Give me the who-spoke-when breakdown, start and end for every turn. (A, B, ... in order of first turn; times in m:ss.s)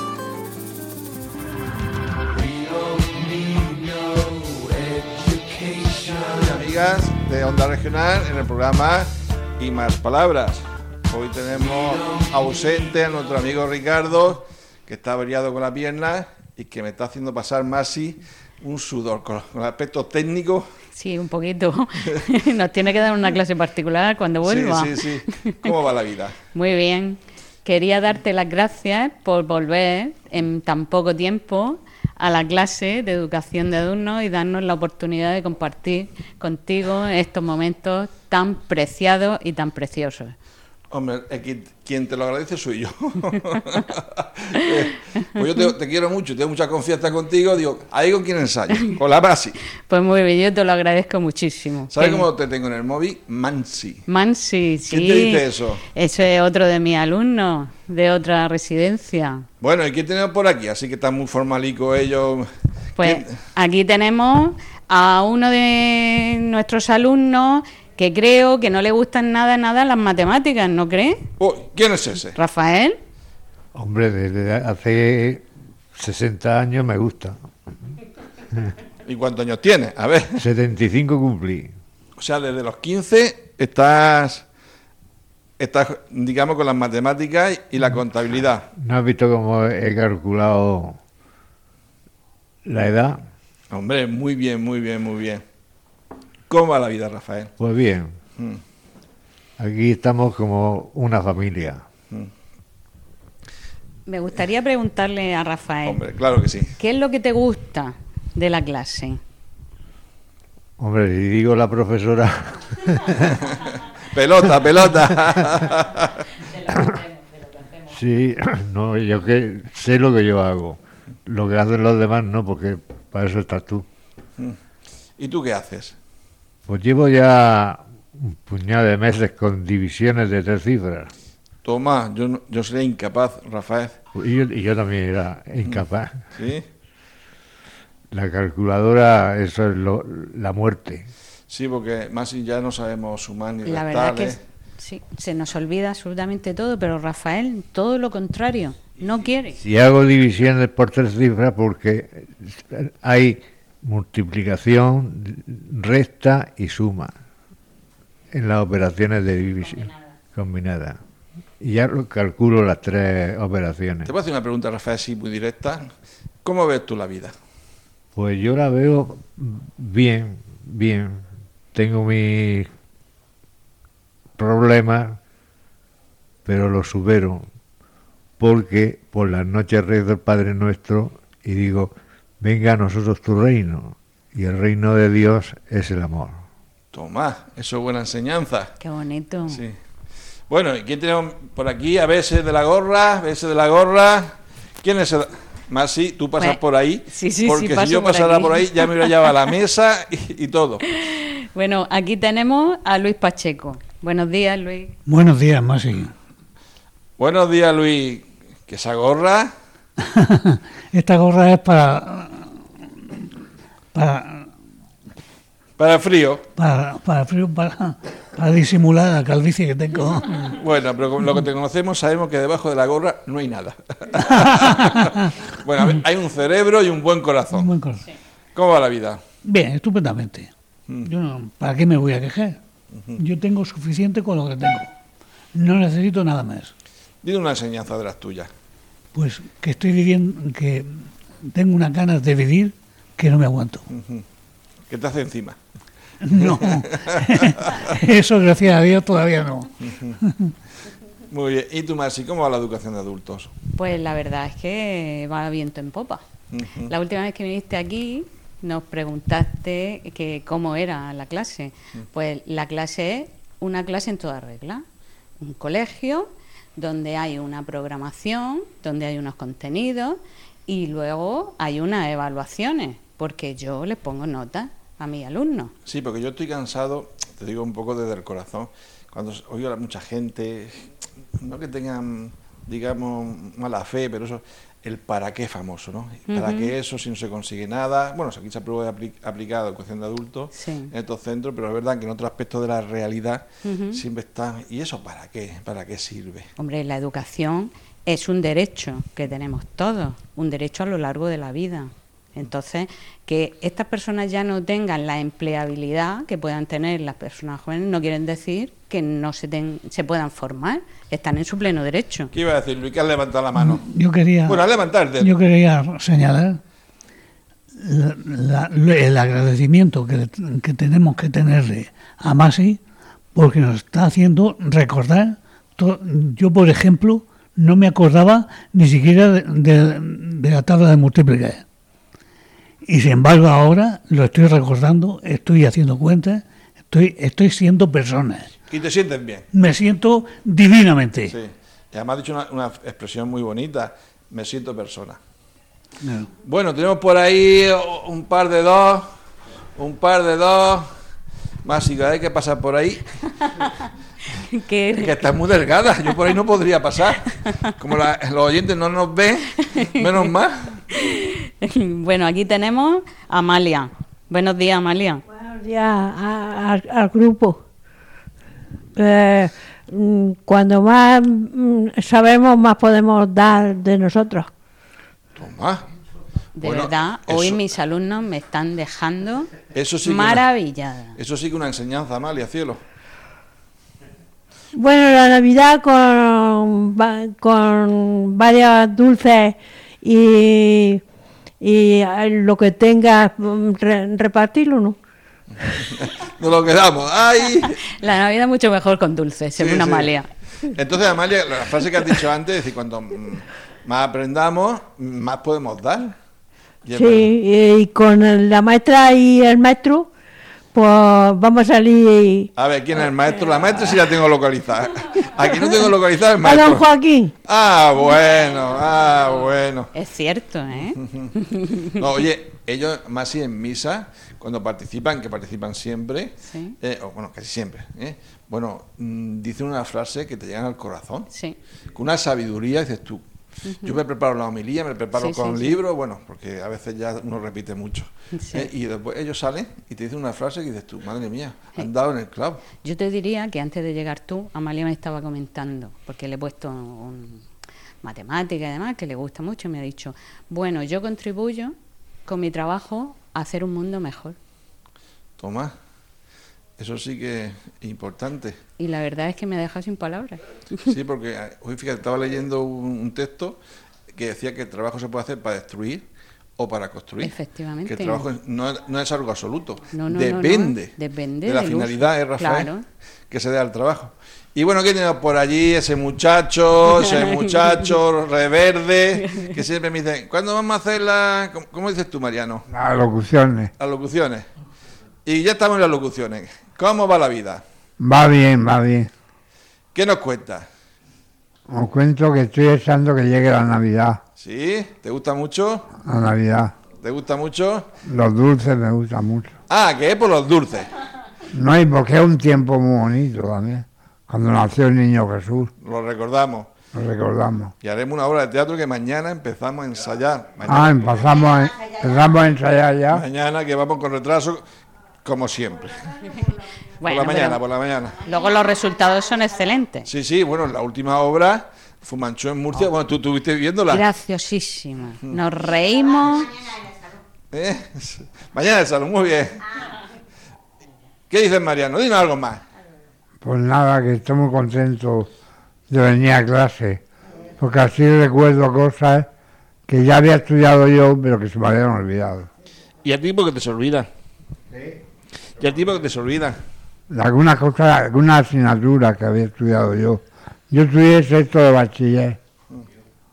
0:02.4-0:20.7 A
0:20.9-0:25.6 B
0:24.4-0:26.4 A
0:26.5-0:40.4 B
0:40.9-0:49.6 A
0:49.9-0:52.3 B
0:51.9-0:54.0 A
0:54.1-0:59.5 B
0:54.9-0:55.8 A
0:59.6-1:02.5 A
1:03.0-1:11.3 B
1:03.0-1:03.3 A
1:11.4-1:12.4 A
1:12.4-1:13.0 B
1:13.7-1:17.4 C
1:19.1-1:20.4 A
1:20.4-1:21.7 C
1:22.2-1:24.4 A
1:25.6-1:28.7 A
1:28.8-1:31.0 C
1:32.6-1:33.2 C
1:33.7-1:35.4 A
1:36.5-1:37.5 A
1:37.6-1:38.2 C
1:39.6-1:41.8 C
1:44.1-1:46.0 B
1:45.8-1:46.8 A
1:46.8-1:49.2 B
1:50.8-1:53.4 C
1:54.1-1:56.1 A
1:56.4-1:57.9 B
1:57.9-2:03.9 C
2:05.2-2:06.0 A
2:06.7-2:11.1 C
2:11.6-2:14.0 A
2:14.2-2:16.2 C
2:16.4-2:16.6 A
2:18.1-2:21.1 C
2:21.5-2:24.4 A
2:23.7-2:29.6 B
2:29.6-2:37.1 C
2:38.3-2:41.0 C
2:41.6-2:44.1 C
2:44.0-2:45.9 A
2:46.4-2:47.3 A
2:48.1-2:52.7 C
2:54.4-2:55.2 C
2:56.5-2:57.5 C
2:58.4-3:06.4 C
3:06.9-3:08.7 A
3:08.8-3:09.6 B
3:09.5-3:09.8 A
3:10.5-3:20.8 A
3:16.4-3:19.1 B
3:20.9-3:25.0 B
3:25.1-3:26.1 D
3:27.2-3:29.5 A
3:30.0-3:32.5 D
3:34.0-3:34.5 D
3:35.8-3:36.5 A
3:36.6-3:40.6 D
3:40.6-3:47.7 A
3:44.3-3:45.2 D
3:47.5-3:48.0 D
3:48.6-3:49.2 A
3:49.5-3:50.5 D
3:51.0-3:52.6 D
3:52.9-3:53.2 A
3:53.2-3:54.9 D
3:55.5-3:56.7 D
3:57.2-3:58.5 A
3:59.2-4:03.9 D
4:03.9-4:04.2 A
4:04.9-4:05.6 A
4:06.3-4:10.5 D
4:06.4-4:07.6 A
4:11.3-4:13.5 A
4:13.8-4:16.2 B
4:16.5-4:16.9 A
4:16.9-4:24.8 B
4:25.4-4:35.7 B
4:35.9-4:40.9 A
4:41.4-4:56.5 A
4:46.3-4:46.7 B
4:50.5-4:50.9 B
4:53.6-4:54.0 B
4:56.6-5:12.3 B
5:12.3-5:13.8 A
5:13.6-5:14.6 D
5:14.5-5:15.3 A
5:15.2-5:16.6 D
5:17.8-5:22.8 D
5:23.4-5:31.6 D
5:32.8-5:38.5 D
5:38.7-5:39.5 A
5:39.5-5:41.3 D
5:41.3-5:45.2 A
5:46.0-5:46.3 D
5:46.4-5:49.1 A
5:49.8-5:50.9 A
5:51.6-5:53.0 A
5:54.3-5:55.2 B
5:55.0-6:00.8 A
5:59.8-6:00.0 B
6:00.9-6:05.2 B
6:05.3-6:07.6 E
6:09.0-6:14.5 E
6:15.4-6:15.8 A
6:16.6-6:19.5 B
6:16.6-6:17.6 A
6:19.7-6:20.5 A
6:20.0-6:21.2 B
6:21.2-6:22.8 A
6:24.8-6:31.0 E
6:31.6-6:35.0 E
6:35.7-6:37.7 A
6:37.6-6:40.3 B
6:39.6-6:40.1 A
6:40.8-6:46.1 A
6:46.8-6:47.3 A
6:46.9-6:50.1 E
6:50.7-6:52.5 E
6:52.6-6:56.9 A
6:56.4-6:57.3 E
6:57.5-6:59.9 A
6:59.9-7:01.8 B
7:01.0-7:01.3 A
7:01.9-7:11.3 A
7:06.5-7:06.8 B
7:11.3-7:11.6 B
7:12.0-7:13.2 A
7:13.7-7:14.0 B
7:13.8-7:22.6 A
7:15.2-7:15.8 B
7:18.3-7:18.7 B
7:22.8-7:27.4 B
7:28.0-7:31.7 B
7:32.3-7:34.4 B
7:35.4-7:35.7 A
7:36.8-7:38.6 A
7:38.8-7:40.9 B
7:40.9-7:43.6 A
7:44.1-7:46.0 A
7:46.6-7:47.3 A
7:47.2-7:48.3 B
7:47.9-7:50.9 A
7:49.9-7:52.8 B
7:51.4-7:52.7 A
7:53.3-8:02.7 A
8:02.7-8:03.7 F
8:03.8-8:04.5 A
8:05.3-8:07.6 A
8:08.0-8:09.1 F
8:10.0-8:10.7 A
8:11.7-8:14.2 F
8:14.4-8:15.9 A
8:16.0-8:16.7 F
8:17.0-8:17.9 A
8:18.1-8:19.5 F
8:19.7-8:20.9 A
8:21.5-8:25.7 F
8:25.8-8:26.7 A
8:26.9-8:27.7 F
8:27.8-8:31.3 A
8:30.6-8:33.2 F
8:33.1-8:34.6 A
8:35.2-8:36.1 A
8:37.0-8:37.6 B
8:37.1-8:38.2 A
8:38.2-8:40.1 B
8:40.1-8:44.0 A
8:43.9-8:46.5 B
8:47.5-8:49.6 A
8:51.3-8:52.6 A
8:53.4-8:55.3 F
8:55.9-8:57.0 F
8:57.6-8:59.3 F
8:59.9-9:02.5 F
9:03.0-9:04.1 A
9:05.6-9:06.6 A
9:07.1-9:12.4 F